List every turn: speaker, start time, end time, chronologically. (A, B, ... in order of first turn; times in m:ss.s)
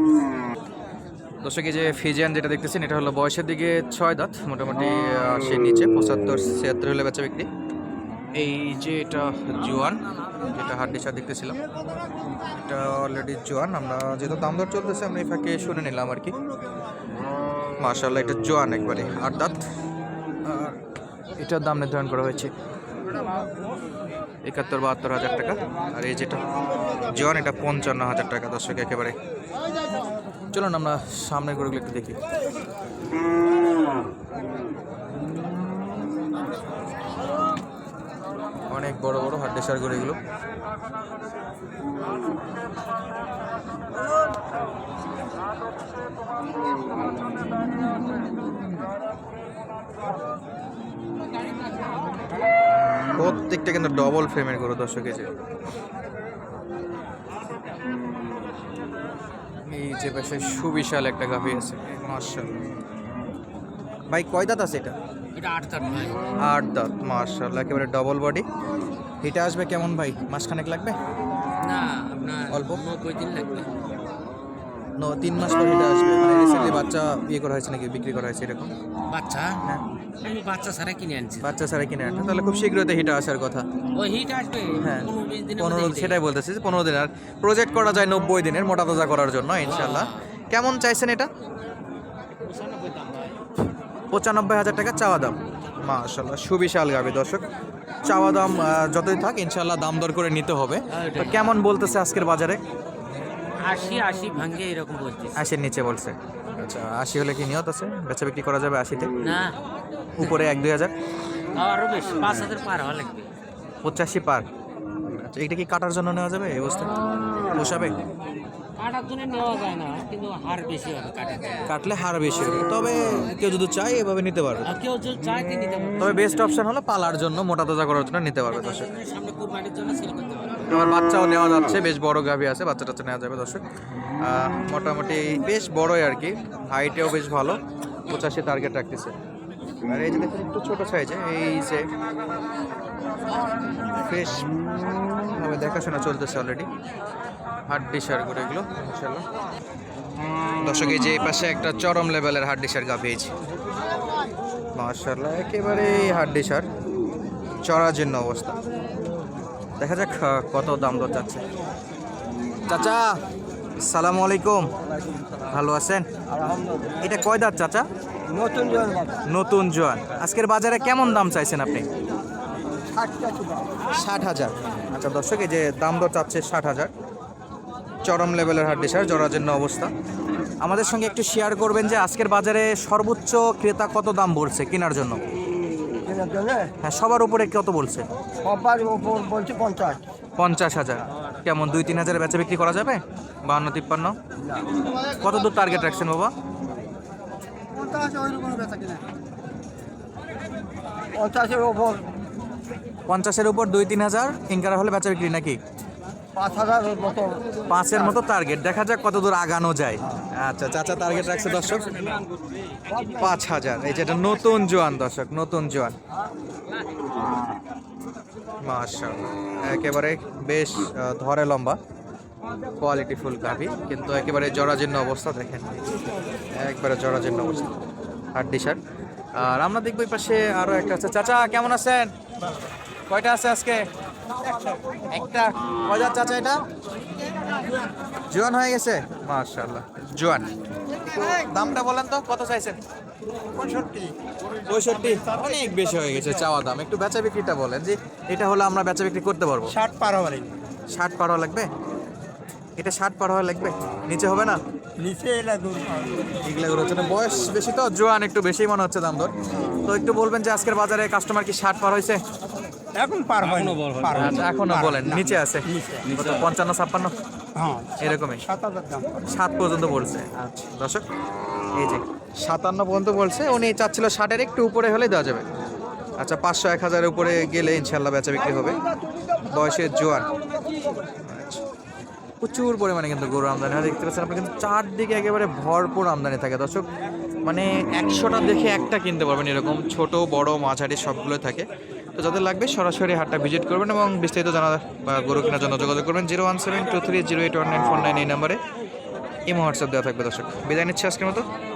0:01.4-0:07.5 A
0:08.4-0:11.6 A
0:12.5-0:16.3 A
0:17.8-0:19.6 A
0:20.4-0:20.8 A
0:21.4-0:22.5 A
0:24.4-0:26.4 A
0:27.0-0:29.1 A
0:30.5-0:32.2 A
0:38.7-0:40.2 A
0:53.1-0:55.3 A
0:59.6-1:02.6 A
1:04.1-1:04.9 A
1:05.3-1:06.2 B
1:06.4-1:08.4 A
1:09.2-1:11.0 A
1:11.6-1:13.8 B
1:12.5-1:12.8 A
1:15.0-1:18.7 A
1:19.1-1:19.6 B
1:20.2-1:21.6 B
1:21.4-1:23.6 A
1:23.9-1:26.2 B
1:24.8-1:31.3 A
1:29.6-1:30.2 B
1:32.4-1:33.4 B
1:34.1-1:37.4 A
1:38.0-1:42.6 A
1:40.9-1:41.6 B
1:43.6-1:45.4 B
1:45.4-1:49.1 A
1:49.2-1:49.6 B
1:50.2-1:50.9 A
1:51.5-1:53.3 B
1:53.8-1:54.4 A
1:55.0-1:57.0 A
1:57.5-1:57.9 A
1:58.8-2:01.7 B
2:01.7-2:04.7 A
2:04.6-2:06.6 B
2:06.0-2:08.9 A
2:08.5-2:10.7 B
2:10.6-2:13.6 A
2:14.2-2:19.1 A
2:19.8-2:21.9 A
2:24.0-2:24.5 A
2:25.3-2:26.7 A
2:27.7-2:29.2 A
2:30.6-2:33.3 A
2:34.7-2:36.7 A
2:37.6-2:38.6 A
2:39.8-2:41.4 A
2:42.7-2:43.2 A
2:43.8-2:44.7 A
2:45.5-2:46.1 A
2:46.3-2:47.0 C
2:47.0-2:47.9 A
2:48.3-2:49.2 C
2:49.2-2:51.9 A
2:52.9-2:53.8 C
2:53.9-2:56.9 A
2:58.0-2:59.9 A
3:00.6-3:05.2 A
3:06.0-3:06.7 C
3:06.8-3:08.0 A
3:08.4-3:10.0 C
3:10.4-3:14.2 A
3:15.1-3:16.3 A
3:17.8-3:19.0 C
3:21.1-3:22.1 C
3:23.1-3:25.6 A
3:26.4-3:27.6 C
3:27.7-3:32.0 A
3:32.9-3:33.2 C
3:33.2-3:36.0 A
3:38.6-3:41.8 A
3:42.8-3:45.8 A
3:46.6-3:47.7 A
3:48.4-3:48.8 A
3:49.4-3:52.1 A
3:53.1-3:53.8 A
3:55.1-3:56.6 A
3:58.3-4:00.5 A
4:01.2-4:02.8 A
4:03.6-4:04.1 C
4:04.7-4:09.7 A
4:05.1-4:05.6 C
4:09.7-4:10.5 C
4:10.9-4:11.7 A
4:12.8-4:14.6 A
4:15.0-4:16.2 C
4:16.4-4:19.3 A
4:19.8-4:22.2 A
4:22.9-4:26.1 C
4:23.4-4:24.4 B
4:24.1-4:27.1 A
4:26.1-4:26.4 B
4:27.6-4:29.1 C
4:28.0-4:28.4 A
4:29.2-4:31.0 A
4:31.7-4:35.4 A
4:36.2-4:38.8 A
4:39.4-4:40.3 A
4:41.2-4:41.6 A
4:42.4-4:46.9 A
4:47.4-4:51.6 A
4:52.2-4:58.6 A
4:59.5-5:01.5 A